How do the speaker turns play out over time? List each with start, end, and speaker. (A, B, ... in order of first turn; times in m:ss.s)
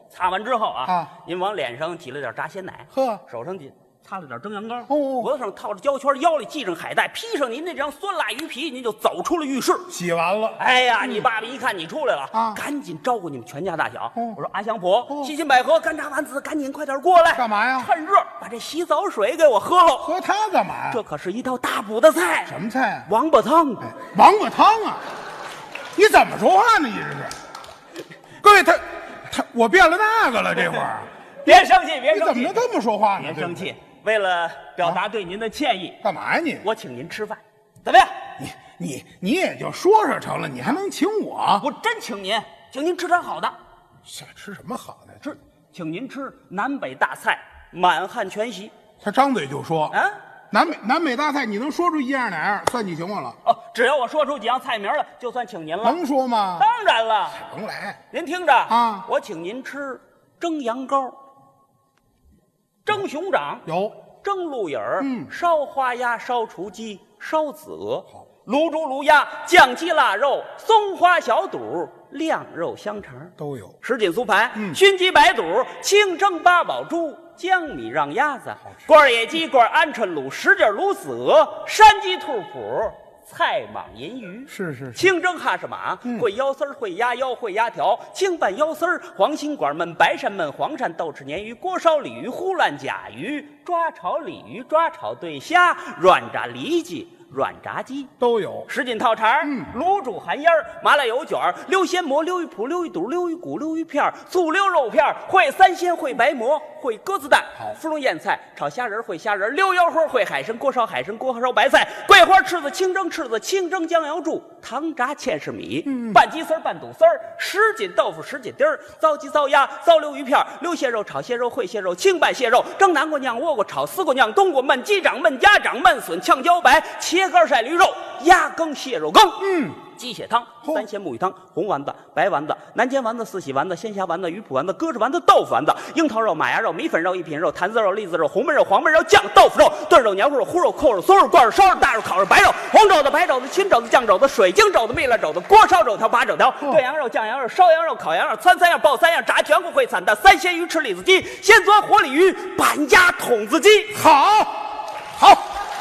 0:00.1-0:09.9 A
0:00.8-0:01.1 B
0:02.9-0:03.2 B
0:04.9-0:05.3 B
0:09.9-0:11.3 B
0:10.6-0:20.1 A
0:12.3-0:12.6 B
0:14.1-0:14.4 B
0:15.1-0:15.3 B
0:17.3-0:17.9 B
0:20.0-0:21.0 B
0:20.9-0:22.6 A
0:22.4-0:23.1 B
0:23.1-0:23.9 A
0:23.8-0:25.0 B
0:25.9-0:27.3 B
0:28.4-0:33.7 B
0:31.4-0:32.6 A
0:33.2-0:36.0 A
0:36.0-0:36.7 B
0:36.6-0:38.2 A
0:38.4-0:41.7 B
0:41.6-0:43.6 A
0:44.0-0:45.2 B
0:45.2-0:48.7 A
0:49.0-0:50.0 B
0:49.9-0:50.2 A
0:50.5-0:53.4 B
0:53.4-0:56.0 A
0:55.8-0:56.7 B
0:56.6-0:57.4 A
0:57.3-0:58.0 B
0:58.1-1:01.2 A
0:58.7-0:59.1 B
1:02.8-1:03.6 A
1:03.6-1:04.0 B
1:04.2-1:38.1 A
1:05.0-1:05.3 B
1:13.4-1:13.8 B
1:24.5-1:25.1 B
1:38.2-1:38.7 B
1:38.7-2:34.0 A
1:39.4-1:39.7 B
1:55.8-1:56.2 B
2:09.4-2:09.8 B
2:33.9-2:35.6 B